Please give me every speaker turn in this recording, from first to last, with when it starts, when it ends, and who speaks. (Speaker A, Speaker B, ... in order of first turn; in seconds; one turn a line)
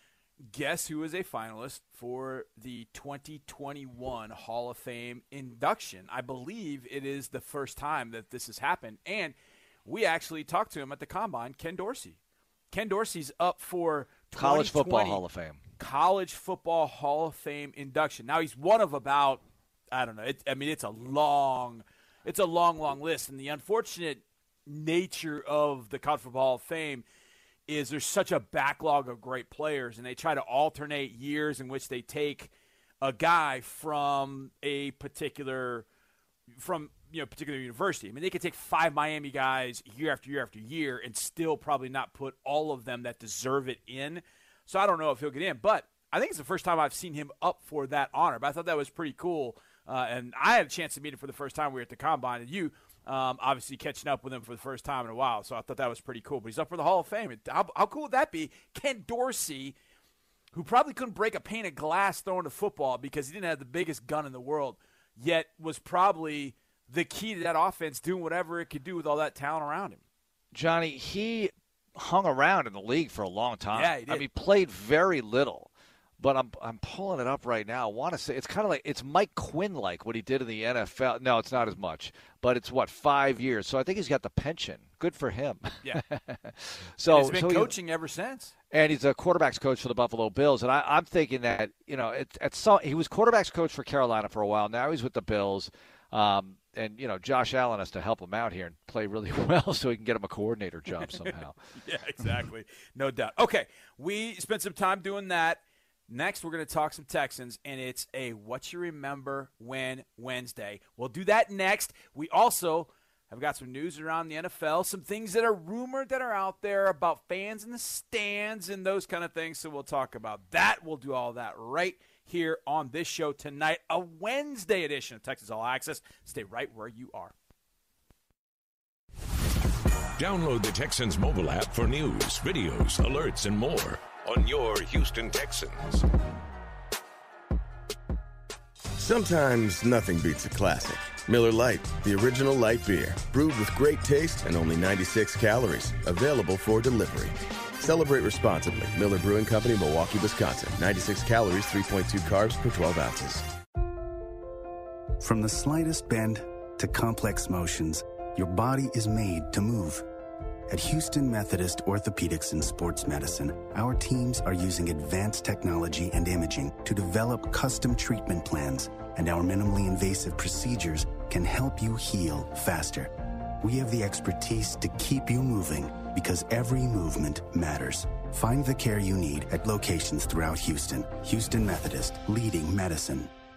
Speaker A: 0.4-12.2
Speaker A: 12.7-15.2
Speaker B: 14.3-15.6
Speaker A: 15.8-27.1
Speaker A: 27.7-35.9
Speaker A: 36.6-59.8
Speaker A: 60.5-70.0
Speaker B: 70.5-87.7
Speaker A: 73.7-74.3
Speaker A: 87.1-88.5
Speaker B: 88.7-101.6
Speaker A: 101.8-127.3
Speaker C: 130.2-136.1
Speaker D: 139.0-153.4
Speaker E: 155.2-160.0
Speaker E: 160.7-183.3